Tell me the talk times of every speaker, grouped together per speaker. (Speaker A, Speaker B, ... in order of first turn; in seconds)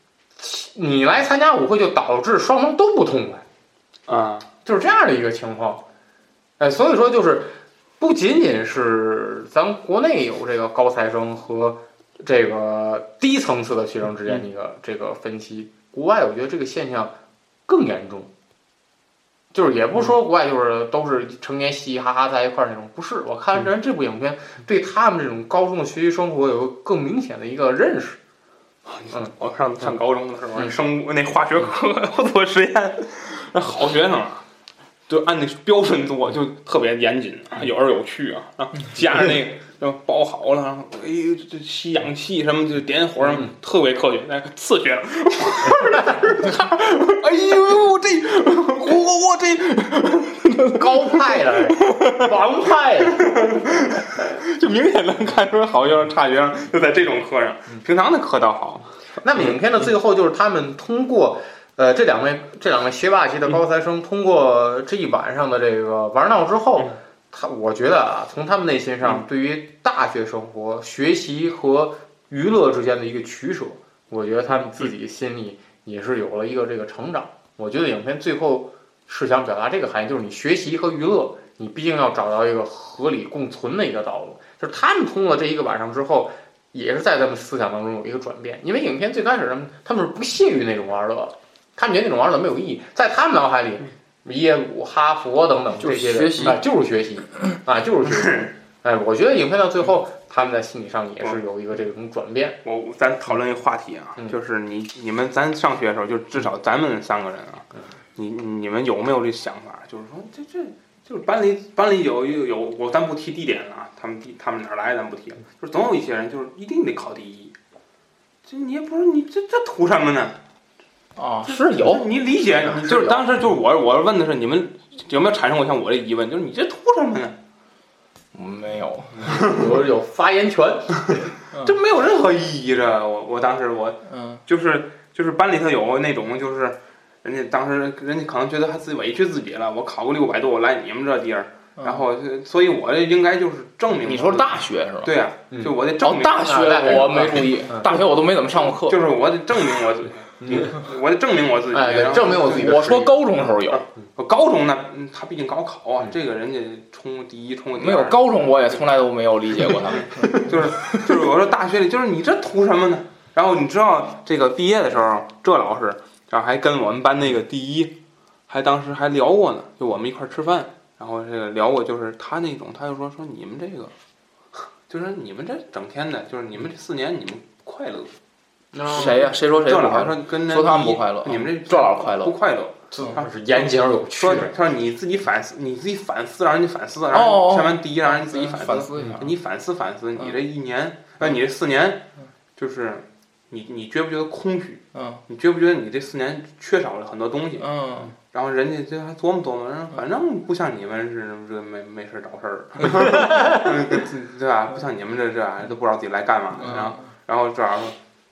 Speaker A: 0.4-3.5, 4.7-5.8, 6.6-17.1, 17.7-18.3, 19.5-28.2, 50.7-53.3, 59.2-102.6, 122.7-123.2, 129.2-131.2, 146.3-147.8, 150.4-150.8, 151.7-153.2, 178.7-179.3, 182.9-184.5
Speaker B: 4.1-4.5, 28.9-34.4, 35.1-50.8, 51.5-52.3, 53.0-59.6, 102.6-117.6, 118.5-120.4, 121.5-127.4, 131.6-147.2, 148.7-153.0, 153.7-158.3, 159.9-168.0, 168.5-173.9, 174.9-178.1, 179.0-192.1, 192.6-197.7, 198.3-208.0
Speaker C: 95.8-96.6, 121.2-122.1, 128.3-129.3, 134.1-134.4, 141.8-142.1, 144.0-145.2, 146.0-149.0, 152.4-153.8, 157.8-161.1, 178.9-182.3, 187.1-189.3, 194.9-195.2, 197.6-198.2, 206.6-207.0